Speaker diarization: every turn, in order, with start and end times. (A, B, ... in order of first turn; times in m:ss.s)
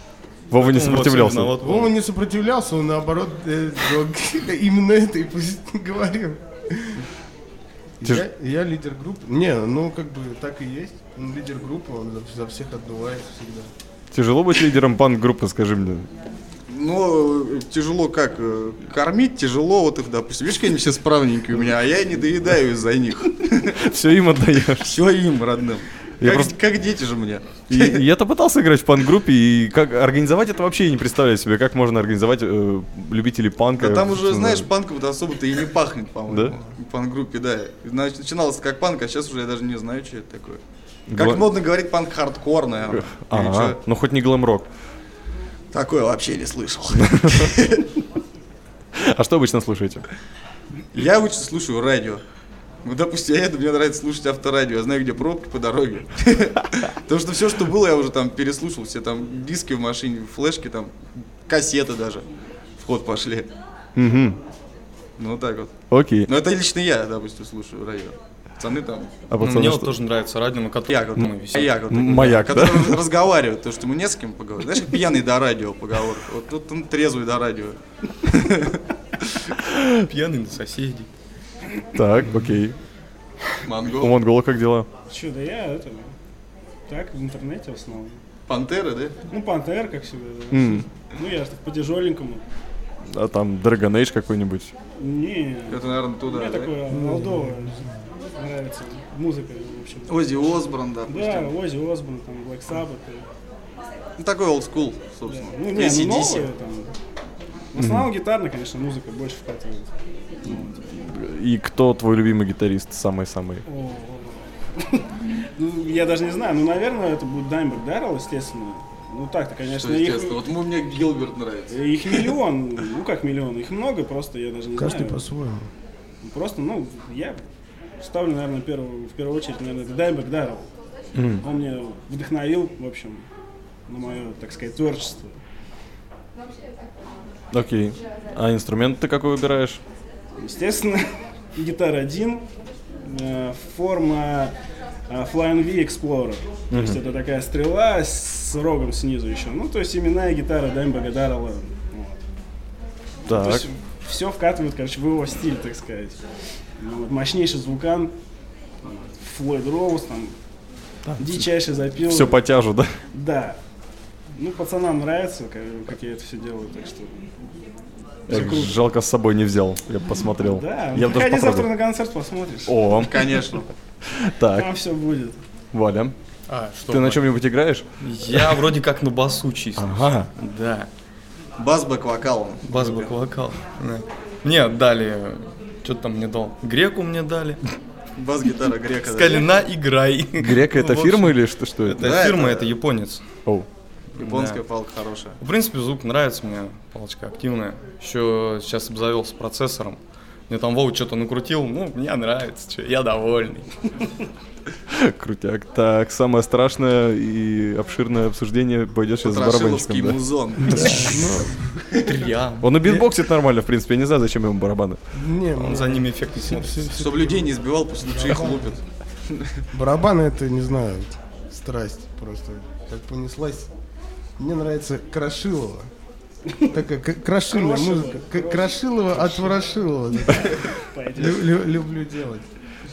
0:00.5-0:01.6 A
0:00.5-0:01.9 B
0:01.6-0:07.0 C
0:08.0-0:13.7 C
0:14.1-0:16.1 A
0:16.7-0:23.8 D
0:23.8-0:25.0 A
0:24.8-0:28.0 D
0:26.2-0:26.6 A
0:27.7-0:34.7 A
0:33.8-0:40.6 D
0:36.3-0:36.6 A
0:41.1-0:41.5 A
0:41.1-0:43.8 D
0:42.9-0:44.7 A
0:45.7-0:47.9 D
0:46.9-0:47.5 A
0:49.0-0:50.1 A
0:50.9-0:52.2 D
0:52.8-1:02.3 D
1:02.8-1:03.5 D
1:04.0-1:04.4 A
1:05.2-1:09.2 D
1:05.9-1:06.3 A
1:09.3-1:09.9 A
1:09.4-1:12.4 B
1:10.9-1:18.8 D
1:11.9-1:13.1 A
1:20.1-1:21.1 B
1:21.9-1:22.8 A
1:23.6-1:24.2 D
1:23.9-1:24.9 A
1:25.1-1:26.1 E
1:26.9-1:28.2 E
1:28.5-1:29.2 D
1:29.3-1:32.4 E
1:30.5-1:30.9 A
1:33.1-1:34.7 A
1:35.0-1:40.4 E
1:35.7-1:36.8 D
1:36.9-1:37.9 C
1:40.1-1:41.5 D
1:41.1-1:43.3 E
1:44.2-1:46.5 D
1:45.3-1:46.9 E
1:47.7-1:50.7 E
1:47.8-1:48.1 A
1:50.5-1:53.6 A
1:53.7-2:00.4 E
1:59.7-2:02.3 D
2:01.7-2:05.2 E
2:04.8-2:05.7 C
2:06.2-2:07.4 E
2:08.0-2:10.6 E
2:11.2-2:11.4 A
2:11.4-2:13.3 E
2:13.9-2:15.4 E
2:17.5-2:19.8 A
2:20.4-2:22.5 E
2:23.0-2:24.5 E
2:25.1-2:32.2 E
2:26.7-2:27.0 A
2:33.3-2:33.7 A
2:33.3-2:36.2 E
2:36.8-2:38.1 E
2:38.8-2:40.4 E
2:41.0-2:43.0 A
2:41.2-2:42.4 E
2:43.1-2:43.6 E
2:44.3-2:47.3 E
2:48.3-2:48.8 E
2:48.3-2:51.7 A
2:50.4-2:52.9 E
2:52.7-2:53.3 A
2:53.0-2:53.7 D
2:54.0-2:54.7 A
2:54.5-2:55.4 E
2:55.7-2:56.2 A
2:56.5-2:57.3 B
2:56.9-2:58.6 A
2:58.0-3:00.9 B
2:59.8-3:00.3 A
3:01.6-3:03.1 D
3:02.6-3:07.6 B
3:08.2-3:09.5 D
3:09.0-3:13.2 B
3:10.4-3:12.3 A
3:12.0-3:12.7 D
3:14.2-3:14.6 B
3:14.2-3:15.4 D
3:15.4-3:23.7 B
3:24.9-3:31.3 A
3:29.2-3:31.3 D
3:30.7-3:31.8 C
3:31.9-3:32.2 D
3:32.0-3:33.0 B
3:32.6-3:35.0 A
3:35.1-3:37.5 C
3:35.6-3:37.0 B
3:37.0-3:39.6 D
3:38.0-3:38.7 C
3:39.7-3:43.7 C
3:44.4-3:45.9 C
3:46.7-3:52.5 C
3:47.5-3:49.6 E
3:50.3-3:51.6 E